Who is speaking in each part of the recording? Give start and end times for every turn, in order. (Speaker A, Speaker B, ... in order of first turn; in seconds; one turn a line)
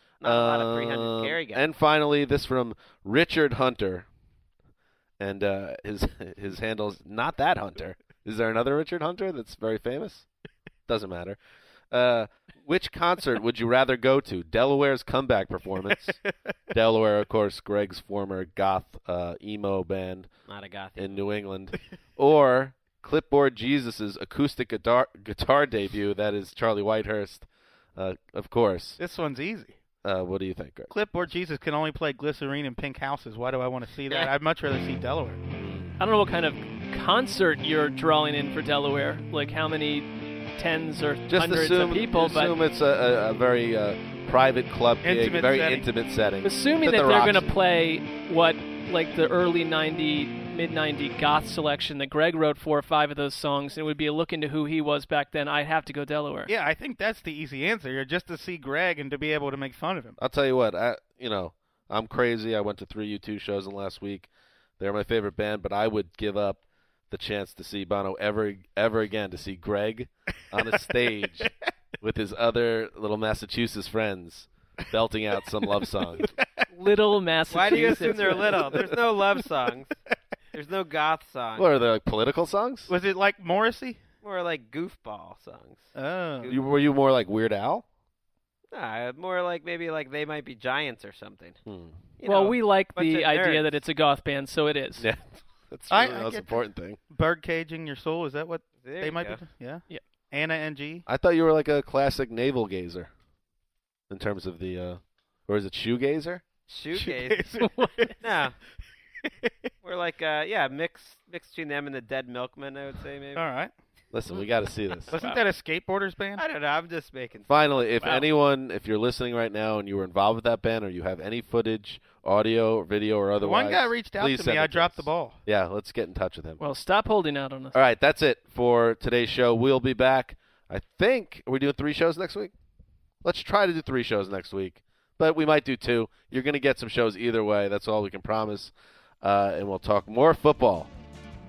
Speaker A: 0.2-1.6
Speaker B: 0.2-4.0
Speaker B: 5.2-10.3
Speaker B: 10.9-11.4
Speaker B: 11.9-16.2
Speaker B: 16.7-20.3
Speaker A: 20.5-21.2
Speaker B: 20.9-29.0
Speaker C: 29.0-29.8
Speaker B: 30.0-30.9
Speaker C: 30.9-35.4
Speaker B: 35.5-36.0
Speaker D: 36.0-42.5
Speaker B: 41.3-47.5
Speaker C: 45.0-45.9
Speaker D: 46.4-56.5
Speaker C: 56.5-60.2
Speaker B: 60.2-64.3
Speaker B: 64.8-71.5
Speaker B: 72.0-76.3
Speaker D: 76.7-78.7
Speaker A: 77.5-80.0
Speaker C: 78.1-78.8
Speaker A: 80.5-81.7
Speaker B: 81.5-82.9
Speaker C: 82.9-84.0
Speaker A: 84.2-86.7
Speaker C: 85.9-86.5
Speaker B: 86.5-87.8
Speaker A: 88.7-91.6
Speaker B: 91.7-92.0
Speaker A: 92.2-93.8
Speaker D: 92.2-95.0
Speaker B: 95.0-97.0
Speaker C: 95.9-101.0
Speaker A: 98.8-99.4
Speaker B: 101.0-103.1
Speaker B: 104.1-106.4
Speaker A: 106.7-107.5
Speaker C: 106.9-108.1
Speaker D: 107.6-108.1
Speaker A: 108.2-108.6
Speaker A: 109.8-113.4
Speaker C: 113.3-113.7
Speaker B: 114.1-115.1
Speaker C: 115.1-116.4
Speaker D: 115.1-115.4
Speaker A: 116.4-118.2
Speaker B: 117.5-126.6
Speaker C: 123.4-125.4
Speaker D: 126.6-127.8
Speaker B: 127.7-132.5
Speaker B: 133.2-140.9